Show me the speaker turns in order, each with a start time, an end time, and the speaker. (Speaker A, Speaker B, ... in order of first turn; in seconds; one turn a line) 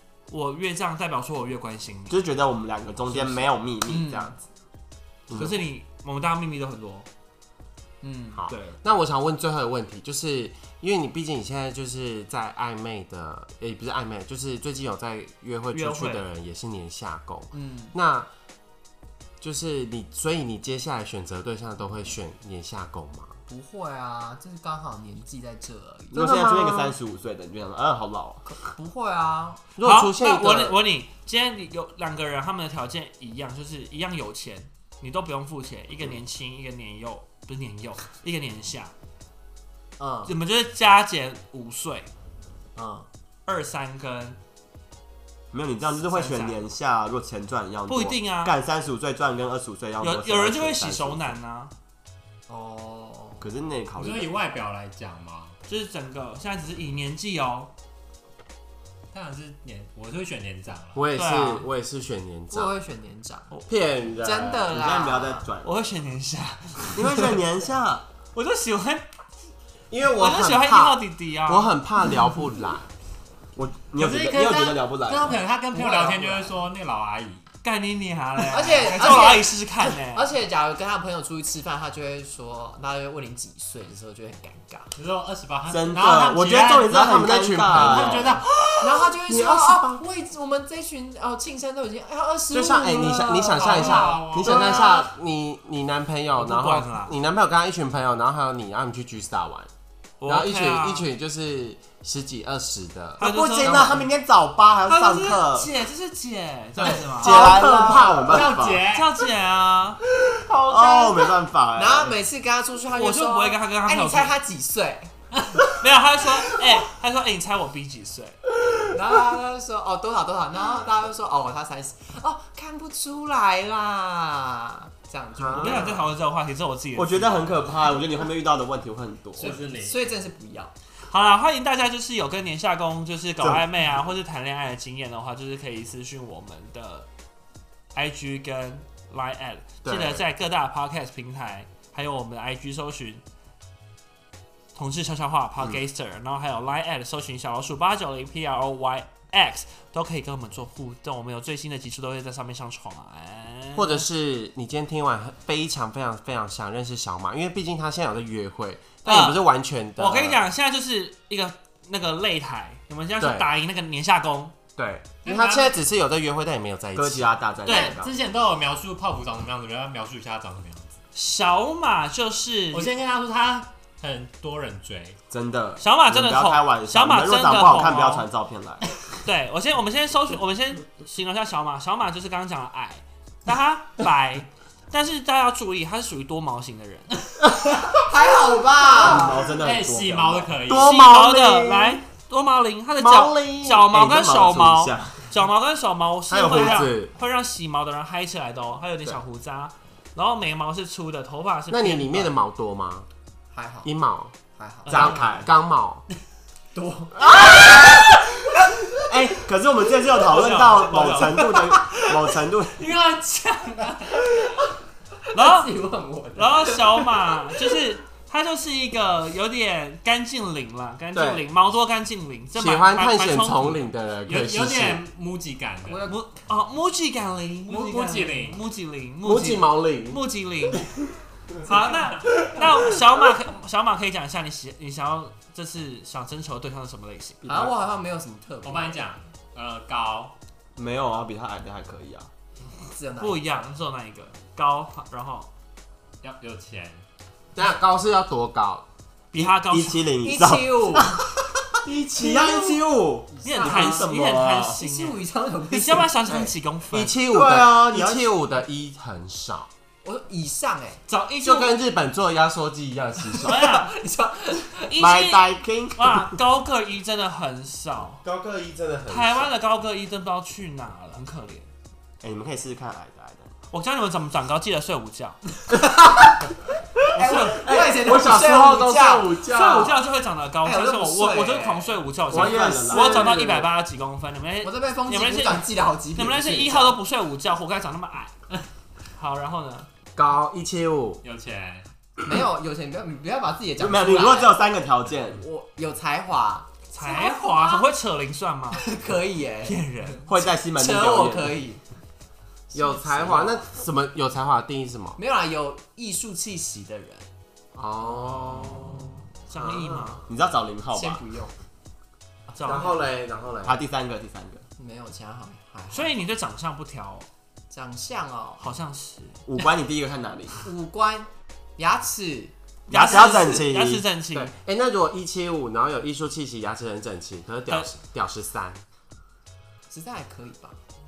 Speaker A: 0.3-2.2
Speaker B: 2.1-4.4
Speaker C: 3.9-4.3
Speaker B: 5.3-5.6
Speaker A: 5.3-7.0
Speaker C: 8.0-8.4
Speaker D: 8.3-18.3
Speaker A: 8.5-8.8
Speaker A: 15.7-16.2
Speaker C: 17.5-17.9
Speaker D: 19.4-23.4
Speaker C: 23.5-26.3
Speaker D: 26.1-26.9
Speaker B: 26.1-28.4
Speaker C: 28.4-29.6
Speaker D: 29.8-30.8
Speaker A: 29.8-38.9
Speaker C: 40.0-40.4
Speaker A: 40.2-42.1
Speaker C: 42.8-43.1
Speaker A: 43.5-44.4
Speaker B: 45.5-51.4
Speaker A: 45.8-46.6
Speaker A: 47.9-48.5
Speaker A: 50.0-51.7
Speaker C: 52.5-53.5
Speaker B: 53.4-54.3
Speaker E: 54.0-55.6
Speaker A: 55.7-57.7
Speaker E: 59.1-61.0
Speaker D: 60.9-62.7
Speaker A: 61.1-61.7
Speaker C: 62.5-63.5
Speaker D: 63.7-64.8
Speaker C: 64.2-65.5
Speaker B: 64.6-65.7
Speaker A: 65.6-67.4
Speaker B: 66.9-68.0
Speaker A: 68.3-69.1
Speaker D: 69.9-72.9
Speaker A: 70.2-71.7
Speaker B: 73.5-75.4
Speaker E: 74.0-77.4
Speaker A: 77.6-80.3
Speaker C: 78.5-84.9
Speaker E: 85.0-87.0
Speaker B: 85.7-88.4
Speaker D: 86.8-88.4
Speaker E: 87.7-88.5
Speaker C: 88.8-94.2
Speaker D: 89.3-90.0
Speaker D: 92.5-99.7
Speaker B: 92.6-93.3
Speaker E: 93.6-94.9
Speaker B: 94.4-95.0
Speaker A: 96.3-97.1
Speaker A: 100.2-101.1
Speaker D: 100.3-104.1
Speaker A: 103.2-104.0
Speaker B: 103.2-105.7
Speaker A: 104.8-107.6
Speaker D: 106.8-108.6
Speaker B: 107.0-108.9
Speaker E: 107.7-109.3
Speaker A: 108.9-110.0
Speaker B: 110.5-112.2
Speaker C: 110.5-115.1
Speaker A: 112.9-114.3
Speaker E: 115.3-115.8
Speaker A: 115.7-118.4
Speaker C: 118.9-126.0
Speaker D: 125.3-126.0
Speaker A: 125.6-127.6
Speaker B: 125.6-125.9
Speaker B: 126.9-129.6
Speaker E: 129.4-130.0
Speaker C: 129.4-130.7
Speaker A: 131.0-137.1
Speaker A: 137.9-143.2
Speaker D: 139.8-140.2
Speaker A: 144.7-154.0
Speaker D: 153.7-160.4
Speaker A: 159.0-159.4
Speaker A: 159.9-164.6
Speaker D: 163.2-163.5
Speaker D: 164.8-167.4
Speaker E: 165.2-165.8
Speaker B: 166.9-168.1
Speaker A: 167.7-168.0
Speaker E: 167.7-171.0
Speaker A: 171.1-172.9
Speaker E: 172.7-175.2
Speaker B: 175.3-179.0
Speaker A: 175.8-178.3
Speaker A: 179.2-187.2
Speaker C: 187.9-189.5
Speaker B: 188.9-191.2
Speaker E: 189.6-190.9
Speaker D: 190.7-192.0
Speaker A: 190.7-202.3
Speaker B: 193.0-195.3
Speaker D: 193.0-193.6
Speaker B: 196.3-196.9
Speaker D: 196.5-197.1
Speaker D: 201.7-203.1
Speaker C: 203.5-203.9
Speaker D: 203.8-204.3
Speaker C: 204.6-205.1
Speaker A: 204.9-205.2
Speaker B: 204.9-205.5
Speaker D: 204.9-206.0
Speaker C: 206.7-208.1
Speaker D: 207.3-207.6
Speaker B: 209.1-212.8
Speaker A: 210.2-211.5
Speaker C: 211.5-212.1
Speaker E: 212.7-214.4
Speaker C: 214.3-214.7
Speaker C: 215.3-217.6
Speaker A: 215.3-215.8
Speaker A: 216.3-224.5
Speaker B: 221.1-221.4
Speaker D: 222.5-225.0
Speaker E: 224.3-226.0
Speaker C: 225.8-226.3
Speaker A: 226.0-230.9
Speaker E: 227.7-228.6
Speaker D: 229.2-230.2
Speaker A: 231.6-237.6
Speaker E: 231.9-232.4
Speaker C: 237.4-239.0
Speaker E: 238.6-240.3
Speaker B: 240.8-242.3
Speaker C: 242.9-243.5
Speaker A: 243.2-245.5
Speaker E: 246.2-247.0
Speaker D: 247.5-248.8
Speaker A: 249.3-250.2
Speaker B: 249.4-254.8
Speaker C: 250.2-251.1
Speaker C: 251.8-256.1
Speaker A: 253.4-257.2
Speaker D: 256.2-259.7
Speaker B: 257.3-258.3
Speaker C: 260.0-261.0
Speaker A: 261.1-261.8
Speaker D: 261.4-263.7
Speaker A: 263.4-263.9
Speaker C: 263.5-265.1
Speaker A: 264.9-268.2
Speaker B: 264.9-266.4
Speaker D: 268.2-269.5
Speaker A: 269.1-271.7
Speaker B: 272.2-273.6
Speaker A: 273.7-275.4
Speaker C: 277.1-279.5
Speaker A: 277.1-277.8
Speaker D: 277.3-280.0
Speaker A: 279.4-288.3
Speaker C: 280.6-282.9
Speaker B: 282.3-283.3
Speaker D: 282.9-283.7
Speaker C: 284.6-287.0
Speaker A: 289.1-289.9
Speaker D: 290.1-291.2
Speaker E: 291.2-291.9
Speaker C: 292.2-294.6
Speaker B: 293.8-295.4
Speaker C: 295.4-297.9
Speaker A: 296.9-298.8
Speaker C: 298.7-301.8
Speaker A: 299.6-300.3
Speaker B: 300.3-301.6
Speaker C: 302.7-303.7
Speaker D: 302.7-305.2
Speaker C: 305.2-307.3
Speaker D: 307.7-310.2
Speaker A: 308.2-310.2
Speaker B: 310.3-311.2
Speaker C: 310.9-311.5
Speaker C: 312.5-313.0
Speaker A: 312.6-312.9
Speaker D: 312.6-313.8
Speaker B: 313.6-314.6
Speaker C: 314.8-316.2
Speaker A: 315.9-317.3
Speaker C: 317.7-318.6
Speaker A: 318.6-319.4
Speaker B: 319.4-320.6
Speaker C: 320.6-322.5
Speaker A: 322.9-324.5
Speaker B: 322.9-324.0
Speaker D: 324.3-328.8
Speaker C: 329.9-330.8